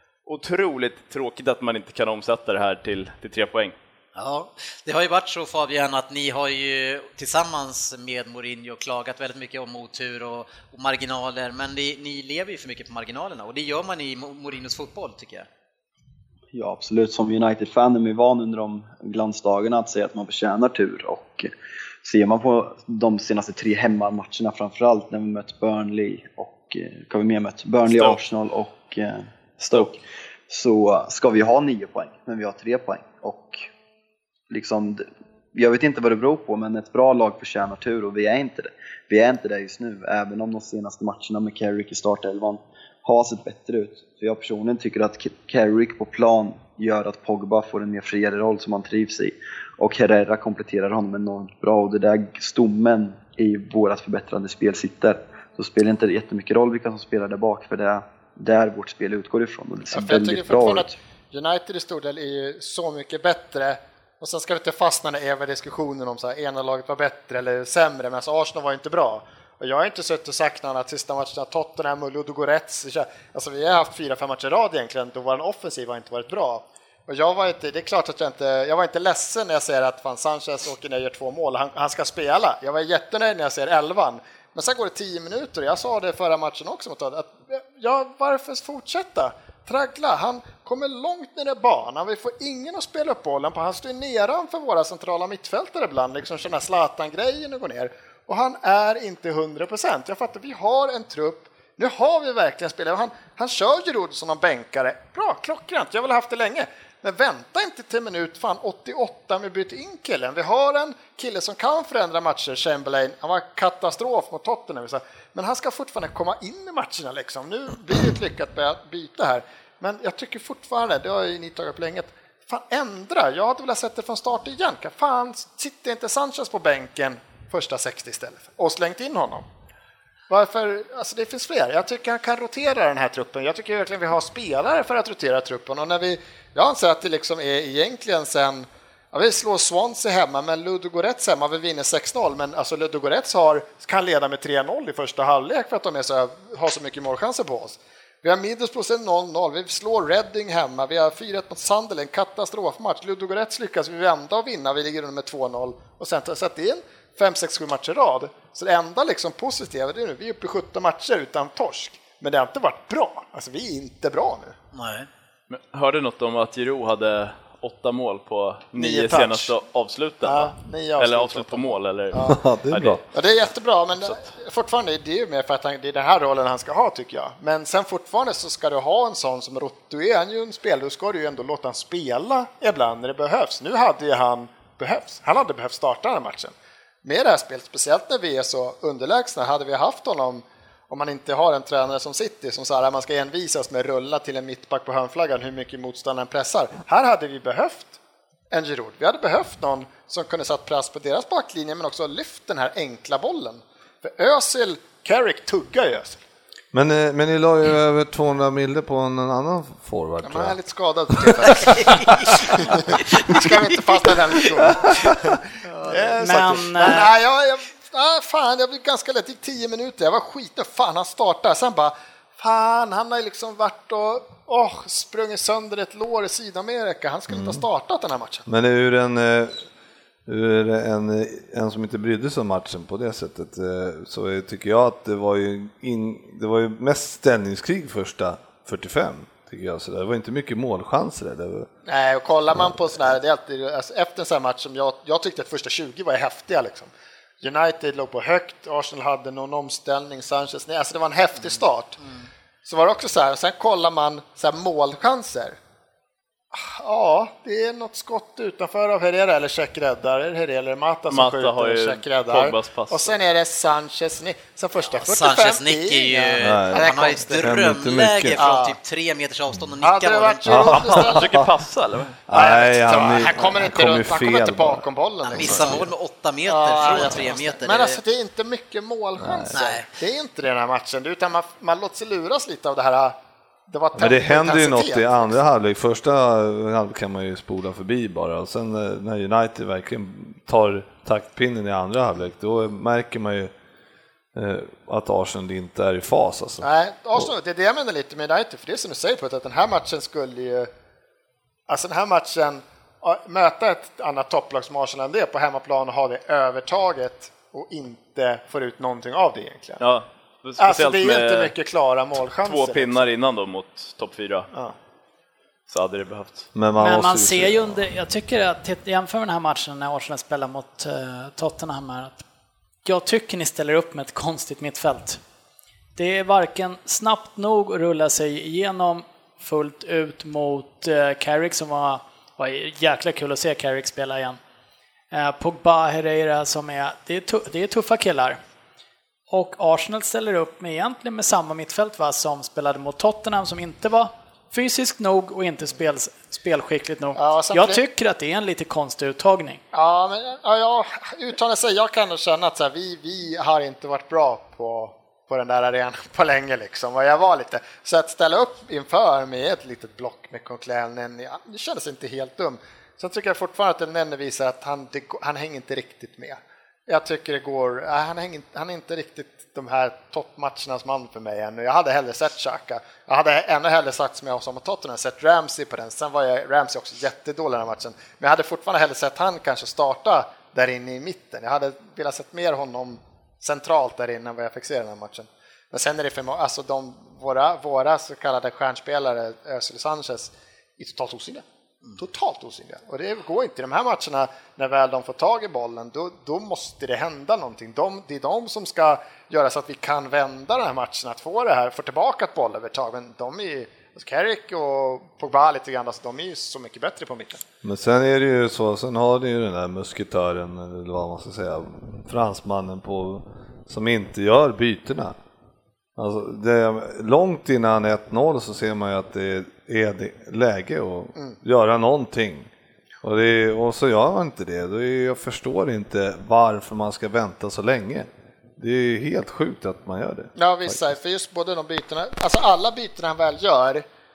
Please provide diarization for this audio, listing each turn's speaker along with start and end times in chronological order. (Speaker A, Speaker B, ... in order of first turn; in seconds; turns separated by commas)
Speaker A: 0.2-3.7, Speaker B: 4.2-15.5, Speaker C: 16.5-21.5, Speaker C: 22.0-33.7, Speaker A: 27.9-28.2, Speaker C: 34.5-61.0, Speaker D: 59.9-129.4, Speaker D: 130.3-164.5, Speaker B: 164.7-165.1, Speaker A: 165.5-173.0, Speaker D: 168.8-169.5, Speaker D: 170.2-172.4, Speaker E: 172.2-173.0, Speaker D: 173.1-198.0, Speaker D: 198.5-206.2, Speaker E: 206.7-210.6, Speaker D: 210.2-228.4, Speaker E: 211.4-212.0, Speaker B: 211.6-213.5, Speaker E: 214.8-215.3, Speaker B: 215.7-216.2, Speaker F: 216.2-217.1, Speaker E: 227.3-227.6, Speaker E: 228.5-229.7, Speaker E: 230.3-241.7, Speaker D: 241.8-252.0, Speaker B: 251.5-252.2, Speaker D: 252.6-255.6, Speaker D: 256.5-267.5, Speaker A: 261.1-263.2, Speaker B: 264.9-270.7, Speaker E: 266.4-268.4, Speaker D: 268.3-268.8, Speaker D: 269.8-271.3, Speaker E: 270.4-271.5, Speaker A: 270.7-272.2, Speaker E: 272.3-274.8, Speaker D: 272.3-275.9, Speaker B: 275.2-278.0, Speaker E: 275.4-275.8, Speaker D: 276.5-283.1, Speaker E: 279.2-279.6, Speaker B: 279.5-279.9, Speaker D: 283.7-285.4, Speaker E: 283.9-293.5, Speaker E: 294.3-297.3, Speaker D: 296.6-300.7, Speaker D: 301.7-309.8, Speaker A: 309.8-311.5, Speaker D: 310.6-313.0, Speaker A: 312.4-314.5, Speaker A: 315.7-316.5, Speaker E: 316.5-317.8, Speaker F: 316.8-322.2, Speaker F: 322.8-325.2, Speaker F: 325.9-334.4, Speaker F: 335.1-338.4, Speaker F: 339.3-349.6, Speaker D: 347.1-347.8, Speaker D: 349.7-391.4, Speaker D: 392.0-407.4, Speaker E: 407.6-415.1, Speaker E: 416.0-422.5, Speaker E: 423.0-430.9, Speaker D: 430.4-433.8